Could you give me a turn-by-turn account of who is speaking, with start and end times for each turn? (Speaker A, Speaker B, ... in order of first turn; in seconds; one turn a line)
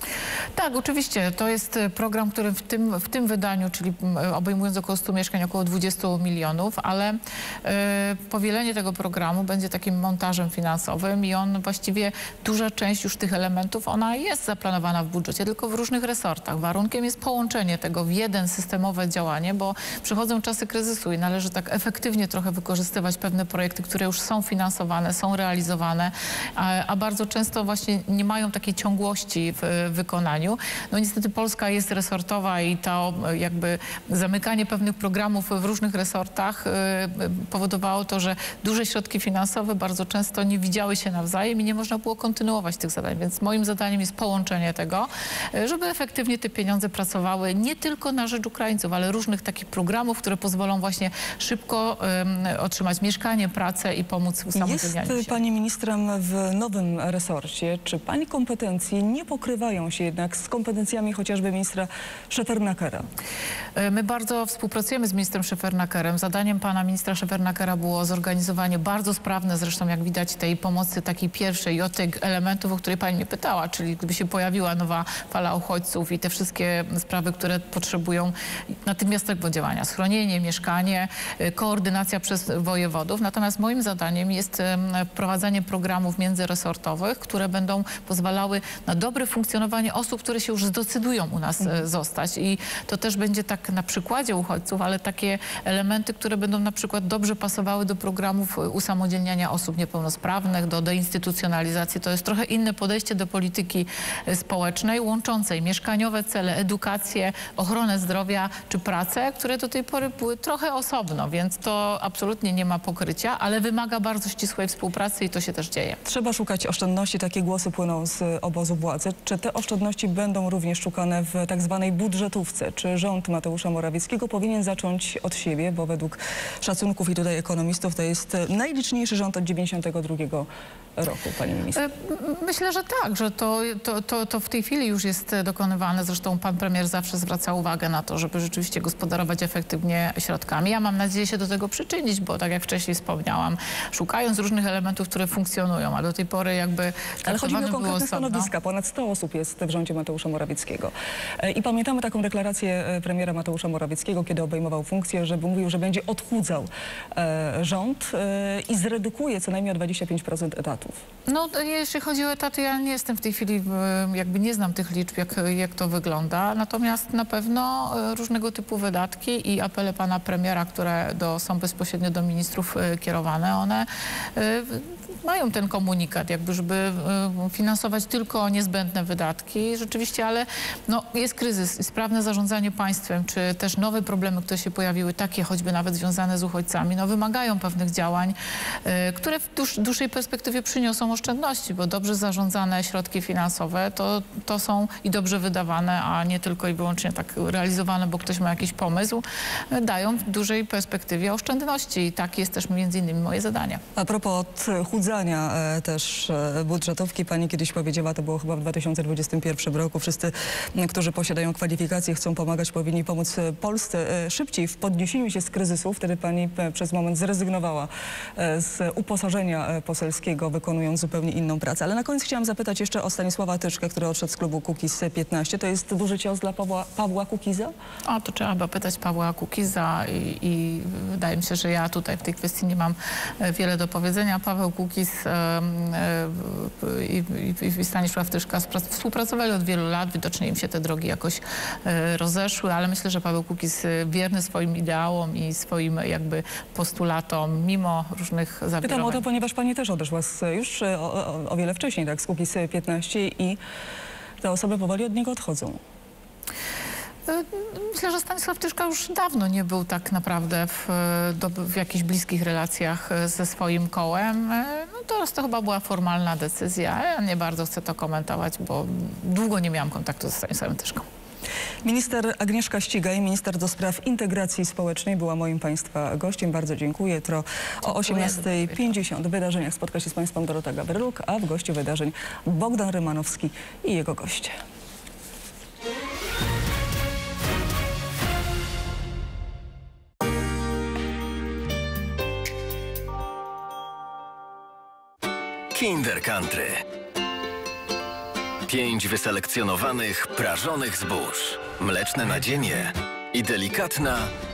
Speaker A: 0.6-55.4
Speaker B: 54.5-63.0
Speaker A: 63.8-116.0
Speaker B: 116.0-131.8
Speaker A: 131.8-148.5
Speaker B: 147.2-161.0
Speaker A: 161.3-203.8
Speaker B: 204.0-227.7
Speaker A: 228.1-249.2
Speaker B: 248.8-253.6
Speaker B: 254.4-255.8
Speaker A: 257.2-271.1
Speaker B: 271.8-284.6
Speaker A: 277.8-279.0
Speaker C: 295.7-296.9
Speaker C: 298.6-304.3